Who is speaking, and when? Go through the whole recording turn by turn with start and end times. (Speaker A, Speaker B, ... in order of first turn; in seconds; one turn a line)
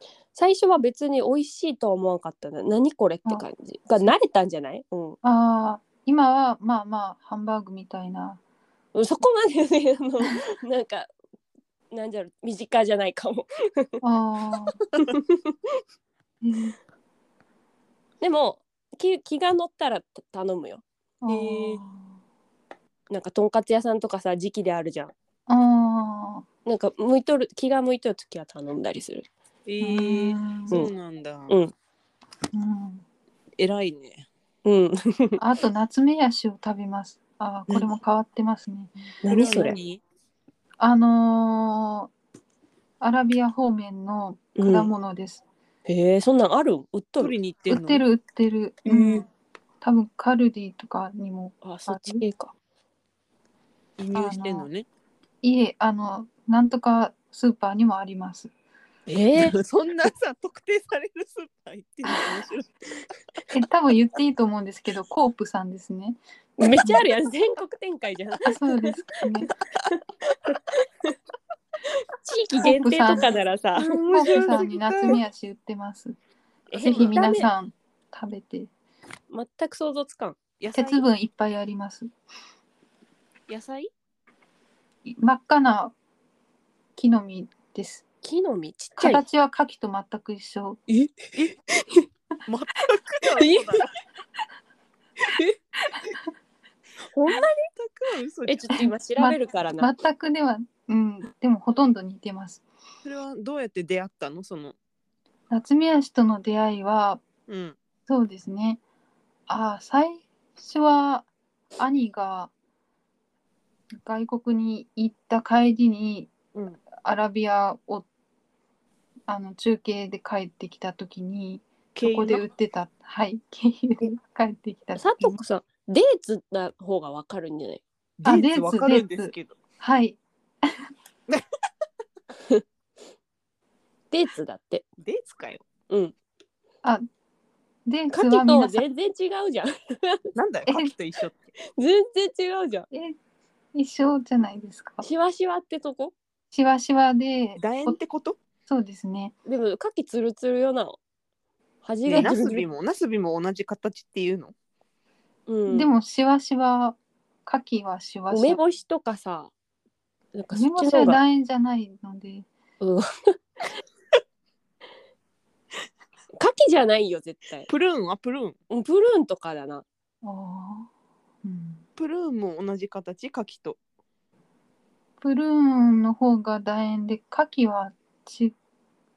Speaker A: 0.3-5.2
Speaker B: 5.2-8.4
Speaker A: 8.9-11.1
Speaker A: 11.9-14.0
Speaker B: 14.0-14.8
Speaker A: 15.0-15.5
Speaker B: 16.4-16.8
Speaker A: 18.2-21.8
Speaker B: 21.2-22.1
Speaker A: 23.1-25.1
Speaker B: 25.5-26.4
Speaker A: 26.6-29.3
Speaker C: 29.6-31.5
Speaker B: 29.8-30.8
Speaker B: 32.5-33.0
Speaker C: 33.6-34.3
Speaker A: 34.6-35.4
Speaker B: 35.4-38.9
Speaker A: 39.2-39.8
Speaker C: 39.2-40.0
Speaker B: 40.8-42.1
Speaker B: 43.0-45.4
Speaker A: 44.5-44.9
Speaker A: 45.9-47.3
Speaker C: 47.2-48.0
Speaker B: 47.7-49.3
Speaker A: 48.9-49.2
Speaker B: 49.8-52.2
Speaker A: 51.6-52.5
Speaker C: 54.0-54.9
Speaker B: 54.1-54.7
Speaker B: 55.4-58.5
Speaker A: 59.1-59.6
Speaker C: 59.4-62.7
Speaker B: 62.0-62.4
Speaker B: 63.5-67.1
Speaker A: 66.6-69.0
Speaker B: 68.4-69.5
Speaker A: 69.9-71.1
Speaker A: 72.2-74.0
Speaker B: 72.6-73.3
Speaker C: 73.8-75.2
Speaker B: 74.1-76.2
Speaker A: 76.7-77.5
Speaker B: 76.8-78.7
Speaker C: 76.8-77.1
Speaker A: 79.3-80.4
Speaker C: 80.6-81.0
Speaker B: 80.7-82.1
Speaker C: 83.5-83.9
Speaker B: 85.0-85.9
Speaker B: 87.0-88.0
Speaker A: 88.2-89.2
Speaker B: 89.0-90.8
Speaker A: 90.9-91.5
Speaker C: 92.5-93.9
Speaker A: 93.4-93.8
Speaker A: 97.1-97.7
Speaker C: 97.2-98.7
Speaker A: 98.5-99.9
Speaker B: 98.8-102.6
Speaker C: 103.0-104.8
Speaker B: 105.5-107.2
Speaker C: 107.5-107.8
Speaker B: 108.1-108.8
Speaker B: 109.5-112.5
Speaker B: 113.9-116.3
Speaker C: 116.5-116.8
Speaker B: 117.0-118.1
Speaker B: 119.3-125.4
Speaker C: 121.9-122.4
Speaker A: 125.0-127.8
Speaker C: 128.2-129.6
Speaker B: 128.2-130.8
Speaker A: 134.1-134.8
Speaker C: 135.0-135.6
Speaker A: 135.9-136.1
Speaker B: 137.8-138.8
Speaker A: 138.1-140.2
Speaker C: 140.3-141.4
Speaker B: 140.7-140.9
Speaker A: 141.8-142.9
Speaker B: 142.9-143.2
Speaker B: 143.7-145.0
Speaker A: 145.0-146.1
Speaker B: 146.5-148.0
Speaker C: 147.6-148.4
Speaker B: 148.7-149.3
Speaker A: 149.4-151.0
Speaker A: 151.8-152.6
Speaker C: 152.1-154.5
Speaker A: 155.5-155.9
Speaker B: 155.7-158.6
Speaker A: 158.3-159.5
Speaker A: 160.3-161.2
Speaker B: 160.5-162.5
Speaker A: 162.8-163.4
Speaker A: 166.4-167.7
Speaker C: 167.7-168.6
Speaker A: 168.7-169.8
Speaker B: 170.2-170.9
Speaker B: 171.4-171.8
Speaker C: 172.0-173.8
Speaker B: 175.2-178.5